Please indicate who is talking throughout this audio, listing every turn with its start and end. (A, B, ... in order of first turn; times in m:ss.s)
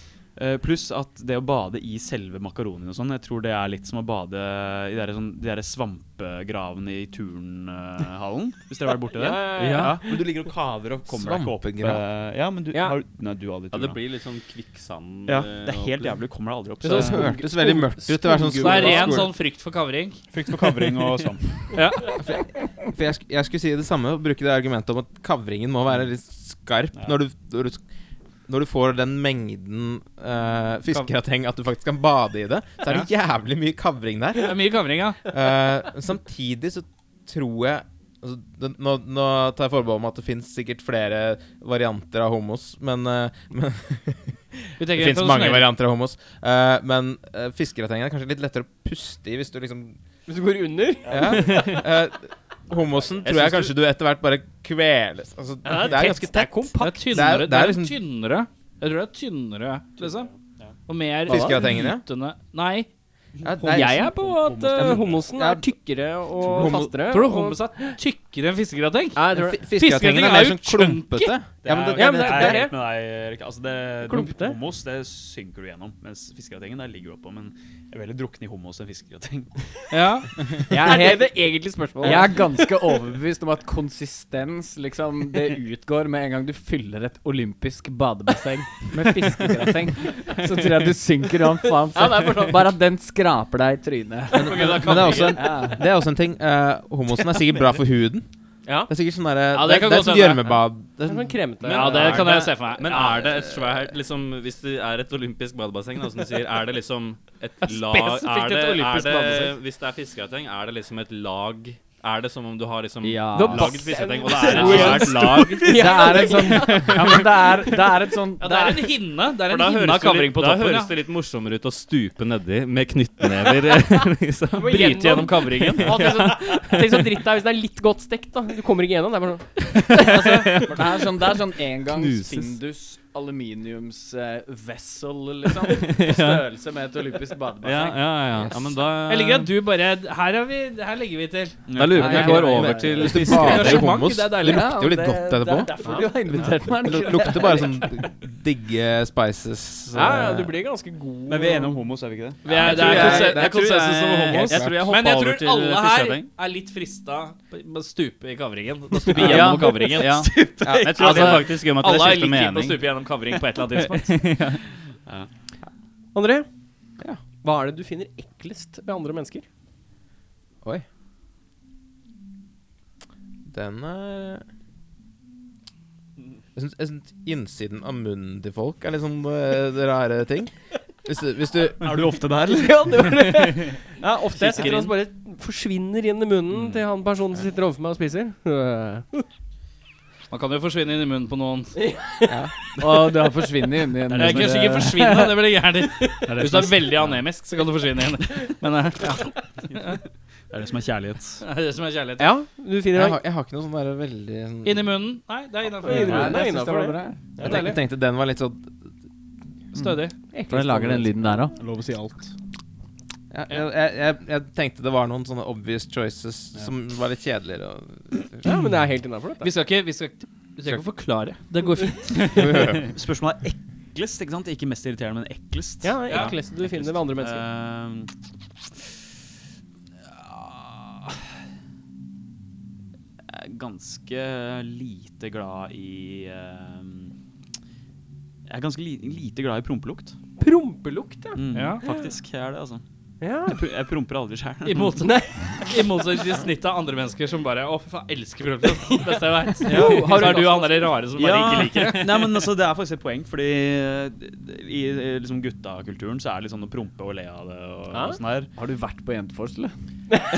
0:00.3-0:14.0 A
0:09.1-0:10.2 B
0:09.5-0:10.1 C
0:11.0-0:12.0 D
0:12.7-0:13.0 B
0:13.7-0:16.2 C
0:15.2-0:17.4 A
0:16.8-0:19.2 B
0:16.9-0:19.3 D
0:18.6-0:20.2 E
0:20.3-0:21.8 A
0:21.7-0:22.0 E
0:22.2-0:27.8 D
0:28.5-0:34.6 D
0:34.4-0:35.2 E
0:35.2-0:50.0 D
0:44.8-0:45.7 E
0:50.3-0:51.8 B
0:51.0-0:51.7 A
0:51.1-0:58.0 D
0:51.5-0:51.8 C
0:53.2-0:53.7 A
0:55.6-0:57.1 B
0:56.8-1:00.3 E
1:00.0-1:00.8 A
1:00.8-1:02.9 E
1:01.3-1:02.0 D
1:01.3-1:01.6 B
1:03.4-1:05.7 D
1:03.6-1:04.0 E
1:03.6-1:08.0 B
1:04.4-1:05.2 A
1:06.3-1:07.1 D
1:07.1-1:11.4 E
1:09.1-1:09.6 B
1:09.3-1:12.7 D
1:11.6-1:19.5 A
1:11.9-1:12.8 B
1:14.0-1:14.6 B
1:19.9-1:20.3 E
1:20.7-1:21.3 F
1:20.7-1:22.7 B
1:22.0-1:35.8 F
1:31.9-1:32.7 B
1:34.3-1:38.3 D
1:34.4-1:35.4 E
1:38.6-1:38.9 B
1:38.8-1:42.3 D
1:39.5-1:40.5 E
1:41.0-1:42.4 B
1:41.6-1:55.9 C
1:41.6-1:43.2 E
1:47.7-1:49.5 E
1:48.1-1:49.5 B
1:53.0-1:53.8 F
1:53.3-1:57.5 B
1:54.6-1:55.0 F
1:55.7-1:58.8 F
1:56.6-1:57.3 C
1:58.4-2:00.9 E
1:59.4-2:04.9 C
2:04.5-2:10.5 B
2:04.6-2:06.0 E
2:05.6-2:07.0 C
2:09.9-2:10.9 C
2:10.6-2:18.1 F
2:11.8-2:12.6 C
2:15.8-2:16.5 C
2:17.6-2:19.5 C
2:18.3-2:18.8 D
2:19.0-2:22.5 E
2:21.7-2:22.3 A
2:21.7-2:23.8 C
2:21.9-2:23.8 F
2:22.0-2:30.5 D
2:23.1-2:24.7 E
2:24.4-2:27.8 F
2:25.8-2:26.1 B
2:29.9-2:31.8 B
2:31.3-2:32.4 A
2:32.4-2:40.2 E
2:32.5-2:36.3 C
2:32.8-2:33.3 B
2:32.9-2:33.4 D
2:34.3-2:34.9 D
2:39.1-2:42.8 C
2:39.2-2:40.6 B
2:40.5-2:41.3 A
2:40.6-2:41.4 D
2:41.0-2:44.3 E
2:43.8-2:44.6 C
2:46.1-2:46.5 B
2:47.4-2:49.4 B
2:53.5-2:54.4 D
2:56.5-3:00.5 D
3:01.0-3:02.2 D
3:01.8-3:03.4 A
3:02.4-3:09.3 B
3:04.3-3:04.9 A
3:10.3-3:11.8 E
3:11.8-3:12.5 B
3:12.2-3:12.5 D
3:12.8-3:15.4 F
3:14.1-3:20.0 E
3:16.3-3:17.2 A
3:20.5-3:21.4 A
3:21.4-3:22.3 E
3:22.2-3:23.2 B
3:22.9-3:25.0 D
3:24.6-3:26.6 E
3:25.8-3:27.0 B
3:25.8-3:27.2 F
3:27.4-3:27.7 A
3:27.4-3:27.8 E
3:27.4-3:28.8 D
3:29.7-3:30.1 E
3:30.3-3:31.5 F
3:31.5-3:32.3 A
3:33.3-3:38.5 D
3:38.4-3:39.5 B
3:39.4-3:42.4 E
3:42.3-3:42.9 D
3:42.9-3:48.1 A
3:45.8-3:47.4 B
3:46.1-3:46.4 E
3:50.1-3:51.1 A
3:53.3-3:57.1 A
3:58.5-4:00.1 A
4:00.4-4:02.1 B
4:01.3-4:02.8 A
4:01.5-4:01.8 E
4:03.2-4:03.6 B
4:03.4-4:05.0 A
4:04.6-4:12.2 E
4:05.0-4:06.0 B
4:09.6-4:11.0 B
4:09.6-4:10.4 A
4:11.1-4:18.5 A
4:17.9-4:18.2 B
4:18.6-4:19.7 F